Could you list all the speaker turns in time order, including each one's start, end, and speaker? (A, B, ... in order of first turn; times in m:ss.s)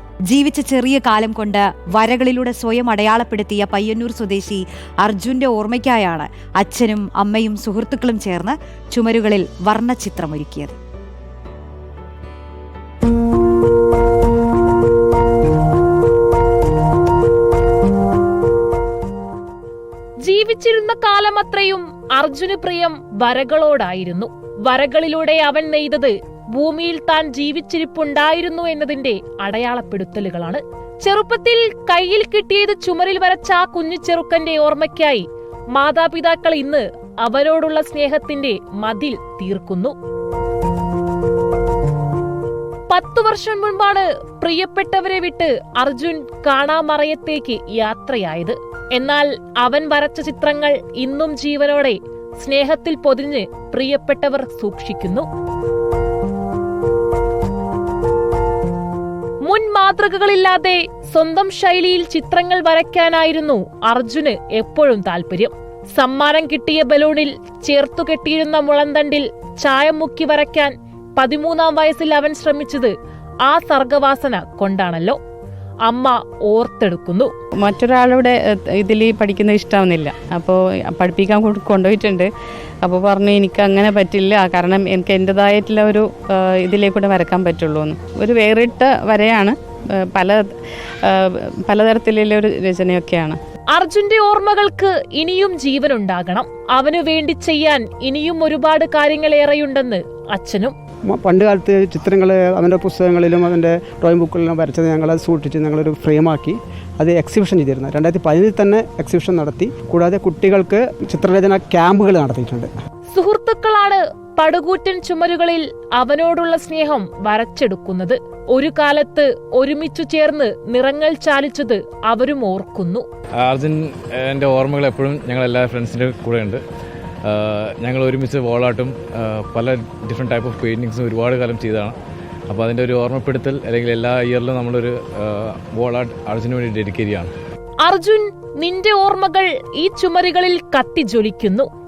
0:00.3-0:10.8 A
0:20.2-0:39.9 B
0:42.9-0:55.2 B
0:59.4-1:12.9 B
1:13.4-1:15.2 B
1:15.8-1:17.3 B
1:17.6-1:22.3 C
1:22.8-1:30.4 C
1:31.0-1:33.4 C
1:33.7-1:40.7 B
1:41.1-1:52.7 D
1:53.1-2:03.0 B
2:03.4-2:06.6 E
2:07.2-2:12.0 E
2:12.5-2:17.3 E
2:17.8-2:21.7 B